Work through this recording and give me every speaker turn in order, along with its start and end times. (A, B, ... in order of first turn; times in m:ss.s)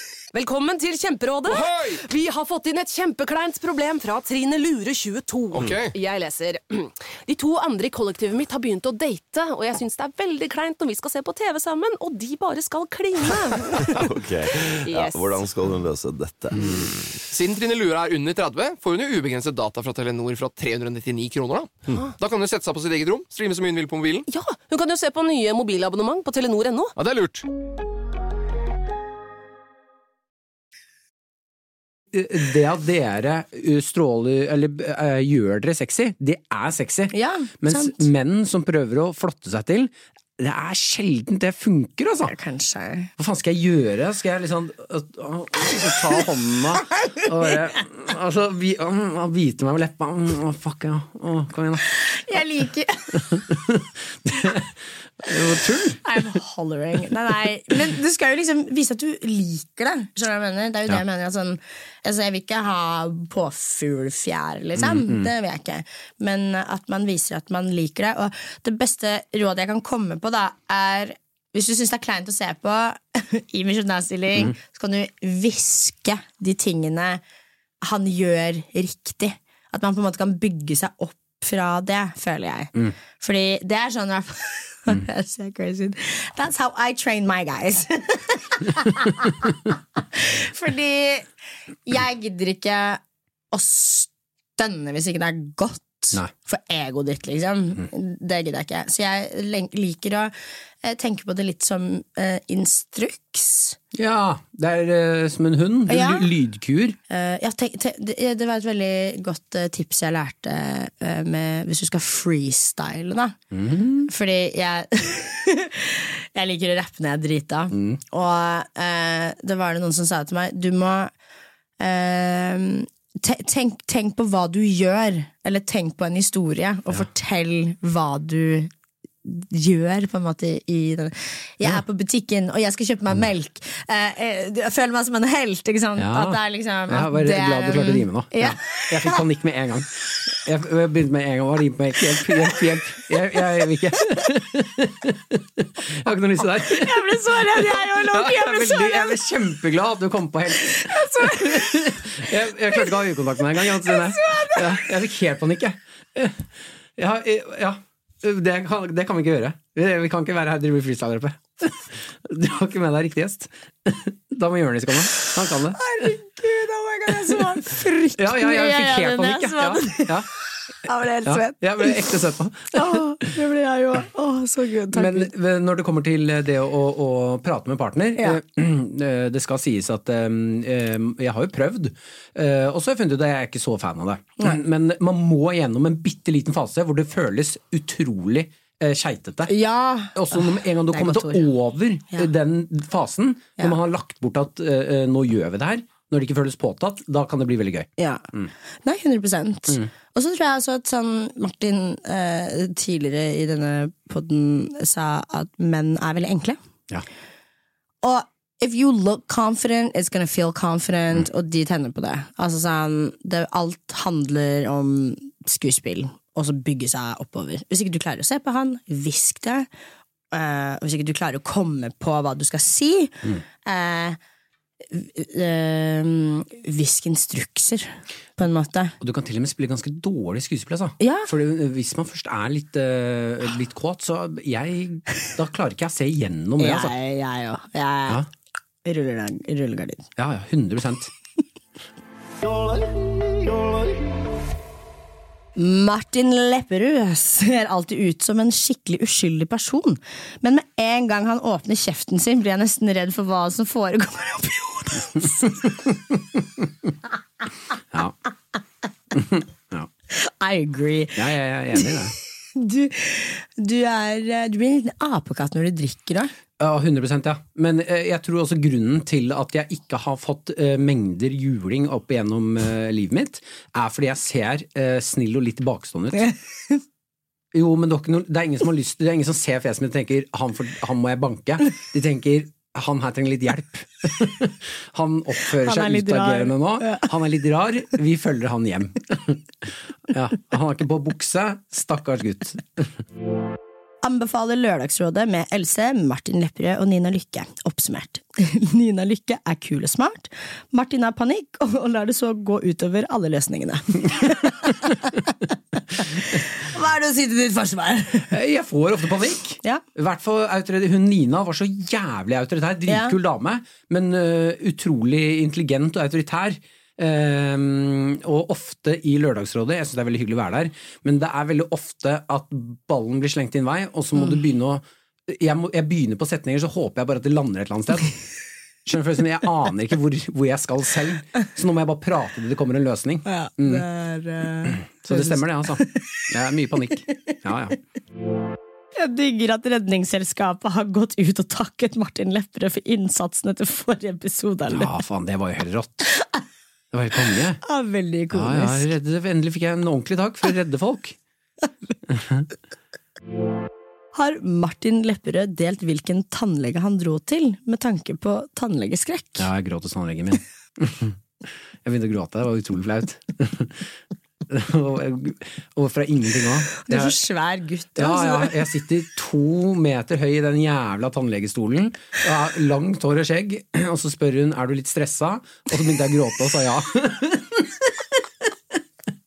0:00.3-0:14.1 A
0:01.5-0:02.0 B
0:05.5-0:05.9 B
0:13.9-0:17.2 C
0:14.8-0:15.4 A
0:17.3-0:24.3 B
0:24.3-0:26.9 A
0:27.0-0:27.4 B
0:32.1-0:42.3 D
0:37.1-0:38.1 E
0:42.3-0:43.1 E
0:43.2-0:51.9 D
0:52.0-0:53.4 E
0:53.2-0:56.2 D
0:56.0-1:17.2 E
1:04.8-1:05.3 D
1:17.8-1:31.3 E
1:31.9-1:33.0 E
1:33.5-1:43.8 E
1:43.9-1:47.0 D
1:45.9-1:46.3 E
1:47.1-1:53.4 E
1:53.5-1:54.1 D
1:54.0-2:01.1 E
1:57.7-1:58.0 D
2:01.8-2:08.7 E
2:09.2-2:19.2 E
2:16.0-2:46.1 D
2:26.6-2:29.2 E
2:30.6-2:31.9 E
2:33.7-2:34.8 E
2:45.8-2:50.2 E
2:47.1-2:50.3 D
2:50.8-2:52.1 E
2:51.2-2:53.3 D
2:52.7-2:55.3 E
2:54.9-3:09.5 D
3:09.5-3:11.5 E
3:10.2-3:18.5 D
3:18.0-3:18.2 E
3:18.8-3:26.6 E
3:28.0-3:39.7 E
3:40.3-3:44.2 E
3:44.9-3:49.0 E
3:49.0-3:57.0 D
3:51.0-3:51.3 E
3:56.6-3:58.2 E
3:58.8-4:00.1 E
4:00.2-4:01.1 D
4:05.6-4:15.8 E
4:19.1-4:19.9 D
4:20.1-4:22.0 E
4:21.2-4:22.2 D
4:22.5-4:26.3 E
4:26.6-4:36.3 D
4:36.2-4:36.8 E
4:37.5-4:53.0 D
4:45.5-4:47.1 E
4:54.0-5:08.3 E
5:08.3-5:28.2 D
5:12.9-5:13.2 E
5:28.8-5:33.8 D
5:33.3-5:36.0 E
5:34.6-5:37.8 D
5:39.0-5:44.9 E
5:44.7-5:46.1 D
5:46.9-5:47.6 D
5:47.6-5:48.9 E
5:48.3-5:51.2 D
5:52.1-5:52.5 D
5:54.1-5:59.5 E
5:59.4-6:01.2 D
6:01.8-6:03.9 D
6:04.5-6:07.2 D
6:06.8-6:08.6 E
6:08.0-6:18.8 D